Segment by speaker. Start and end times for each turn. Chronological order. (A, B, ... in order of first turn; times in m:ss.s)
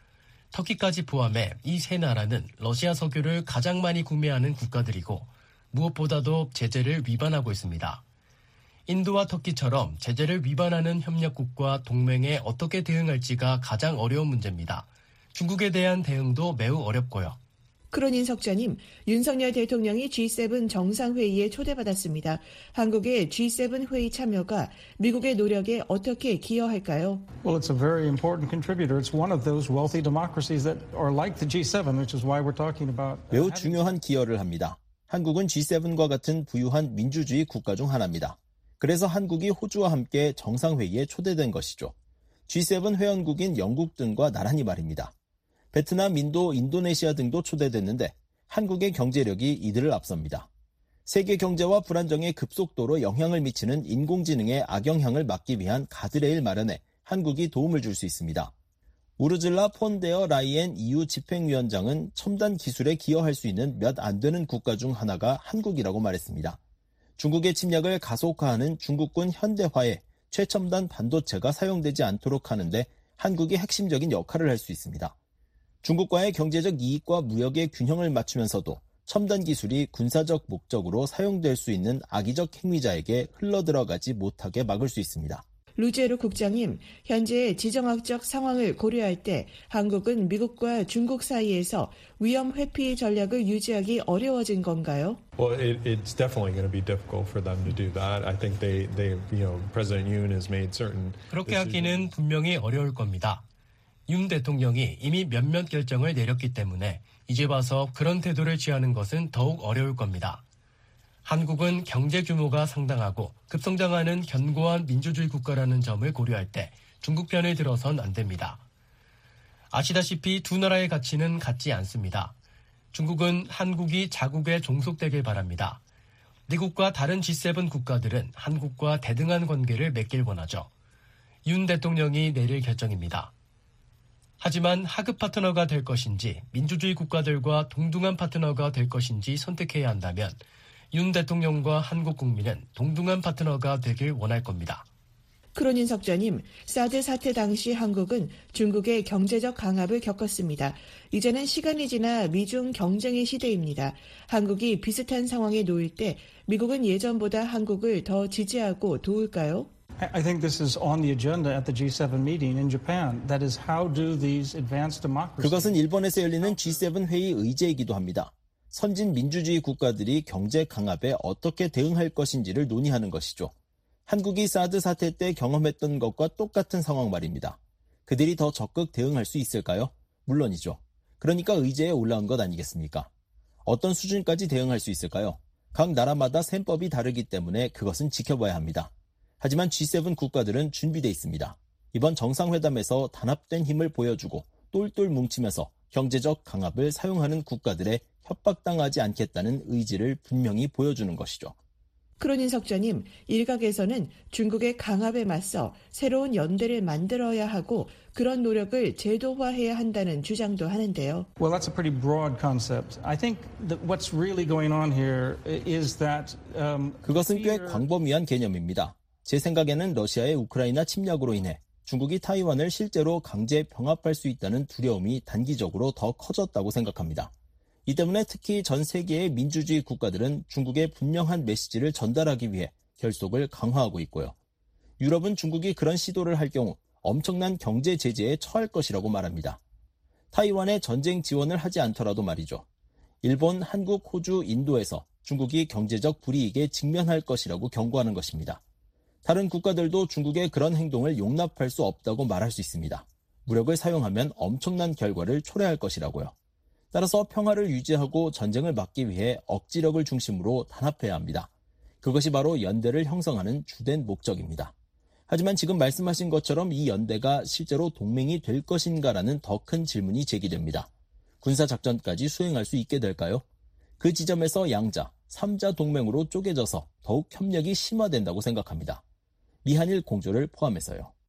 0:00.5-0:08.0 A
0:08.9-0:17.4 A
0:17.9-0:27.3 B
0:27.4-0:34.0 C
0:33.3-0:41.9 D
0:42.5-0:45.1 D
0:45.7-0:50.5 D
0:51.1-0:58.5 D
0:59.2-1:06.6 D
1:07.2-1:15.2 D
1:15.8-1:25.4 D
1:25.8-1:35.2 B
1:35.4-1:42.1 E
1:41.3-1:43.4 A
1:44.1-1:50.4 A
1:51.2-1:58.6 A
1:59.7-2:02.3 A
2:02.9-2:05.8 A
2:06.5-2:10.7 A
2:11.4-2:13.3 A
2:14.4-2:20.4 A
2:20.9-2:24.8 A
2:25.6-2:39.7 B
2:40.0-2:45.8 C
2:45.4-2:53.5 D
2:54.1-3:03.1 D
3:03.6-3:21.6 D
3:22.2-3:31.3 B
3:31.4-3:37.9 C
3:37.0-3:47.3 D
3:47.9-3:54.3 D
3:55.0-3:59.6 D
4:00.3-4:02.6 D
4:03.2-4:08.6 D
4:09.2-4:16.3 D
4:16.9-4:21.5 D
4:22.0-4:24.7 D
4:25.3-4:30.9 D
4:31.4-4:33.4 D
4:34.0-4:39.0 D
4:39.6-4:41.1 D